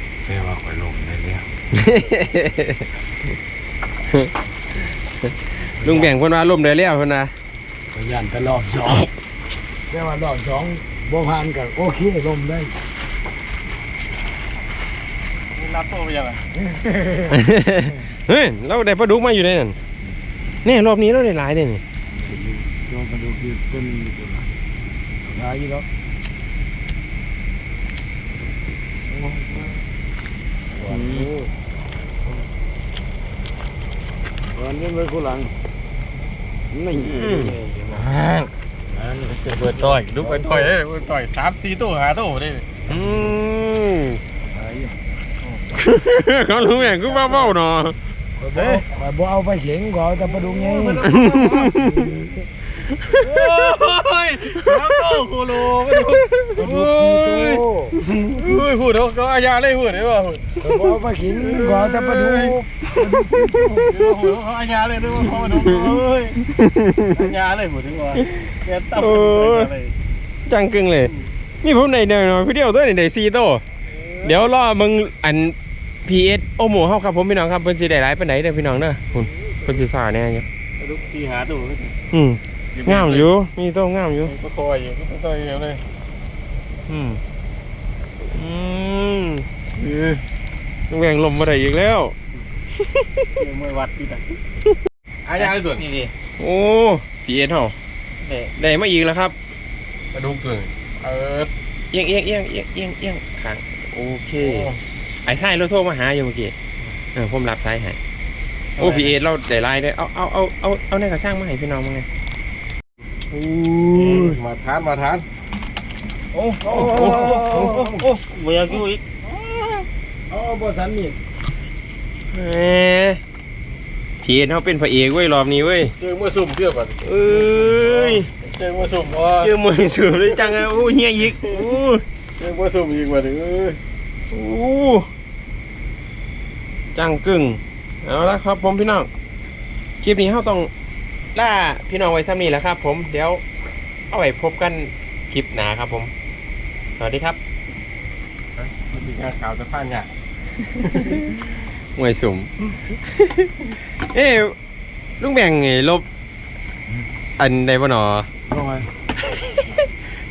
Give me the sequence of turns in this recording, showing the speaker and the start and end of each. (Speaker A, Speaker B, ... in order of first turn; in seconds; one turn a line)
Speaker A: 0.2-1.5
Speaker B: 1.7-2.8
Speaker B: 5.2-7.3
Speaker A: 5.8-6.1
Speaker A: 7.9-9.1
Speaker A: 9.9-12.8
Speaker C: 15.5-16.4
Speaker A: 16.6-17.4
Speaker B: 17.3-19.8
Speaker B: 20.6-21.8
Speaker A: 22.1-24.5
Speaker A: 25.2-25.9
Speaker A: 29.1-29.8
Speaker A: 30.7-31.5
Speaker B: 30.9-31.3
Speaker A: 34.5-35.5
Speaker A: 36.7-38.0
Speaker C: 37.1-38.5
Speaker B: 37.2-37.5
Speaker A: 38.9-40.8
Speaker C: 39.3-42.7
Speaker B: 42.9-44.2
Speaker A: 42.9-43.3
Speaker A: 44.5-45.0
Speaker B: 45.8-48.0
Speaker C: 46.7-47.6
Speaker A: 48.4-51.1
Speaker C: 48.6-48.8
Speaker C: 50.3-51.7
Speaker B: 51.0-52.1
Speaker A: 51.7-52.3
Speaker B: 52.8-53.3
Speaker C: 53.1-57.6
Speaker A: 56.6-58.0
Speaker C: 58.2-60.6
Speaker A: 60.6-64.0
Speaker B: 61.6-61.9
Speaker C: 61.6-62.5
Speaker C: 63.7-66.4
Speaker B: 65.5-67.2
Speaker C: 67.1-69.9
Speaker B: 68.2-69.7
Speaker B: 70.5-73.6
Speaker C: 73.9-74.4
Speaker B: 74.2-80.5
Speaker C: 80.8-81.9
Speaker B: 82.1-84.3
Speaker C: 82.7-83.3
Speaker C: 84.3-85.8
Speaker B: 86.9-87.2
Speaker B: 88.3-89.5
Speaker C: 89.8-90.2
Speaker B: 90.9-92.2
Speaker B: 92.8-93.3
Speaker C: 93.4-94.4
Speaker C: 95.3-95.9
Speaker D: 95.3-96.1
Speaker B: 96.4-97.8
Speaker D: 98.2-98.5
Speaker B: 98.6-99.3
Speaker C: 100.1-101.5
Speaker B: 101.9-104.7
Speaker C: 104.4-104.8
Speaker B: 105.3-106.5
Speaker B: 107.2-108.0
Speaker B: 108.8-112.1
Speaker D: 108.8-109.1
Speaker B: 113.3-114.4
Speaker C: 113.9-115.2
Speaker A: 116.3-118.1
Speaker D: 116.7-119.0
Speaker B: 116.8-117.7
Speaker C: 116.9-117.7
Speaker A: 120.3-121.2
Speaker B: 122.3-123.2
Speaker B: 124.2-125.9
Speaker C: 126.0-129.5
Speaker B: 127.0-128.3
Speaker B: 129.4-132.0
Speaker C: 130.3-130.7
Speaker C: 132.4-133.8
Speaker B: 134.3-135.1
Speaker B: 136.9-139.1
Speaker B: 140.0-140.7
Speaker B: 141.3-143.4
Speaker B: 144.1-146.1
Speaker B: 147.0-147.4
Speaker C: 148.6-150.1
Speaker B: 150.8-151.4
Speaker B: 151.9-152.5
Speaker B: 153.0-154.6
Speaker B: 155.2-156.1
Speaker B: 157.4-158.3
Speaker A: 158.5-158.9
Speaker B: 159.2-159.9